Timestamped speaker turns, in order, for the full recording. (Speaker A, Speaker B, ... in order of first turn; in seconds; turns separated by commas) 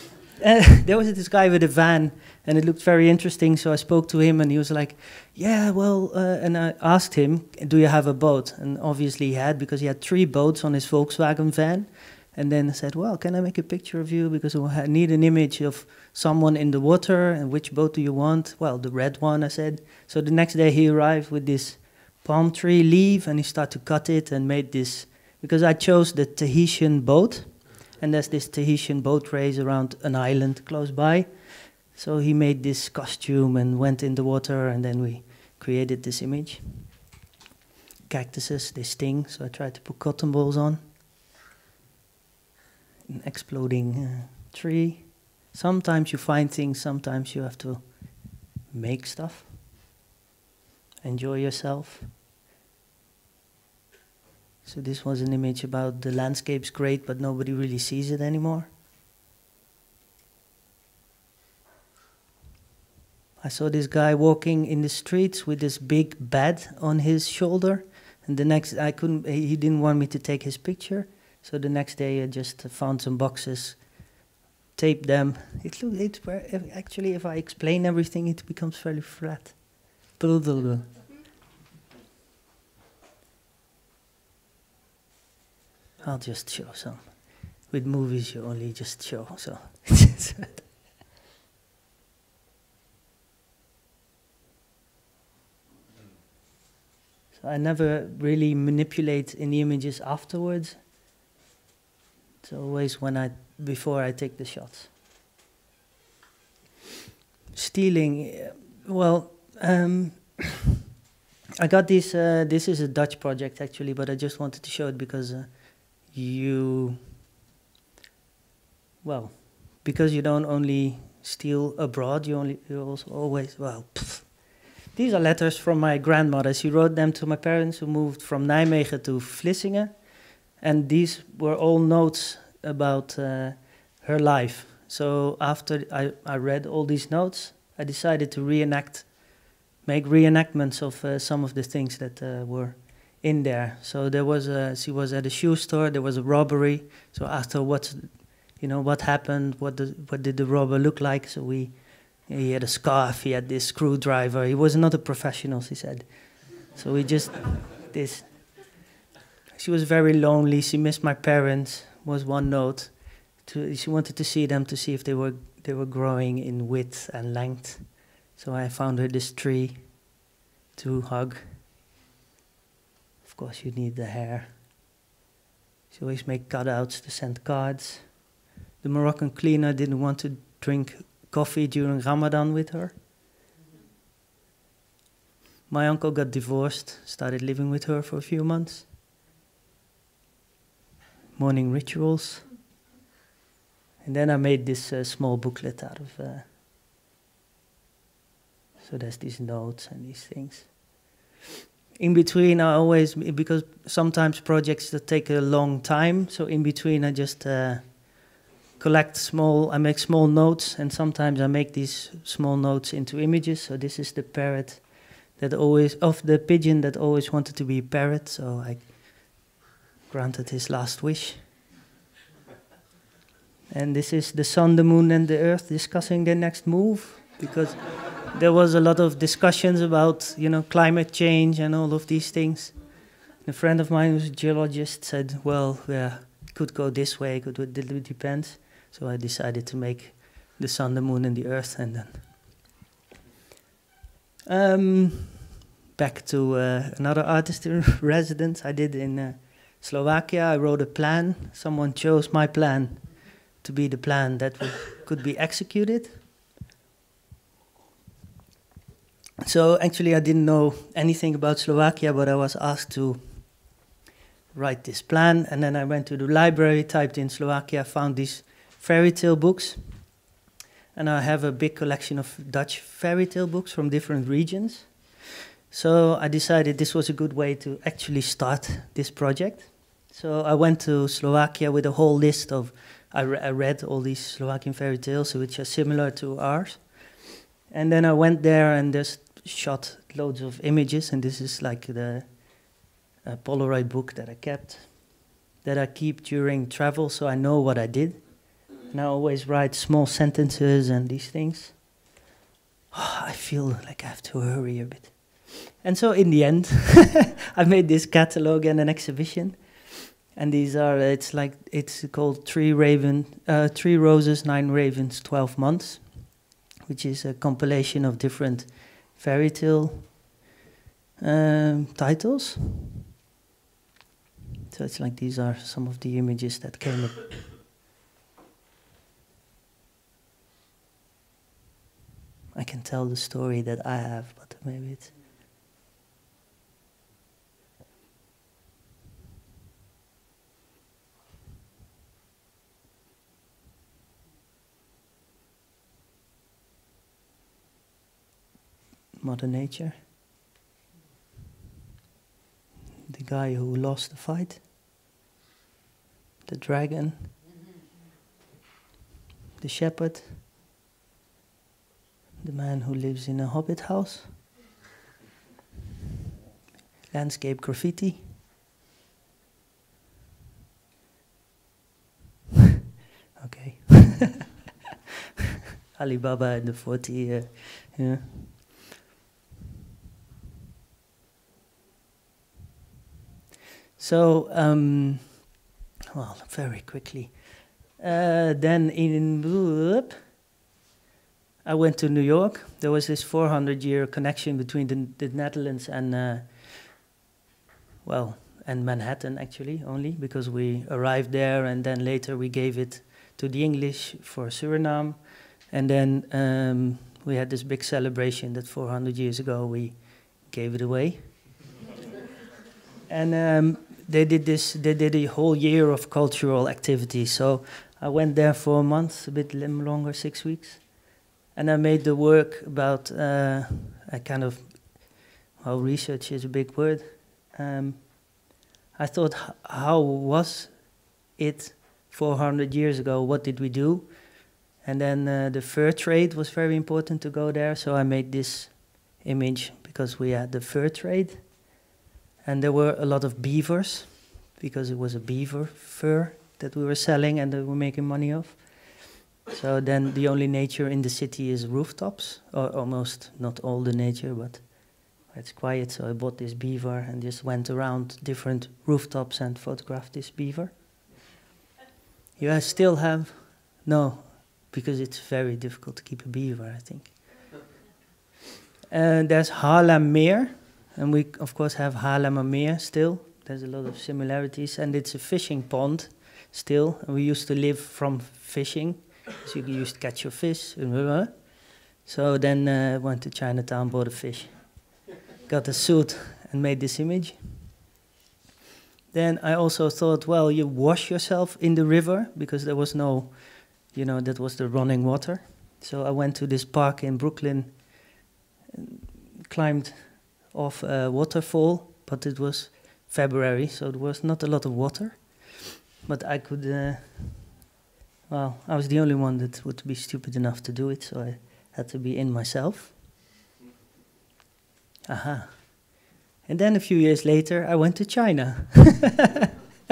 Speaker A: 0.4-36.9, Speaker A: 38.1-40.9, Speaker A: 43.1-49.6, Speaker A: 51.0-52.2, Speaker A: 54.6-58.7, Speaker A: 63.4-74.2, Speaker A: 74.7-80.9, Speaker A: 86.0-90.6, Speaker A: 97.3-100.8, Speaker A: 102.4-104.9, Speaker A: 107.5-110.5, Speaker A: 111.6-117.1, Speaker A: 119.0-158.3, Speaker A: 159.5-170.1, Speaker A: 170.7-171.6, Speaker A: 173.2-174.6, Speaker A: 175.9-178.3, Speaker A: 178.8-183.0, Speaker A: 185.7-188.9, Speaker A: 191.3-192.4, Speaker A: 194.0-196.5, Speaker A: 198.8-200.9, Speaker A: 202.0-219.5, Speaker A: 220.1-221.5, Speaker A: 223.7-242.3, Speaker A: 244.5-256.2, Speaker A: 259.4-263.8, Speaker A: 264.5-270.1, Speaker A: 270.9-301.8, Speaker A: 302.9-320.2, Speaker A: 321.2-322.9, Speaker A: 324.7-327.2, Speaker A: 332.5-335.0, Speaker A: 349.2-350.0, Speaker A: 353.1-354.6, Speaker A: 356.4-357.3, Speaker A: 359.6-360.4, Speaker A: 362.4-364.4, Speaker A: 367.1-368.4, Speaker A: 373.4-374.3, Speaker A: 375.9-378.8, Speaker A: 384.0-385.5, Speaker A: 386.1-390.3, Speaker A: 391.6-396.9, Speaker A: 398.0-411.3, Speaker A: 413.1-421.0, Speaker A: 421.5-428.4, Speaker A: 428.9-441.7, Speaker A: 442.4-460.8, Speaker A: 462.4-467.2, Speaker A: 468.9-484.9, Speaker A: 485.5-487.5, Speaker A: 489.1-498.1, Speaker A: 498.7-507.5, Speaker A: 508.3-513.0, Speaker A: 515.1-515.9, Speaker A: 516.5-519.2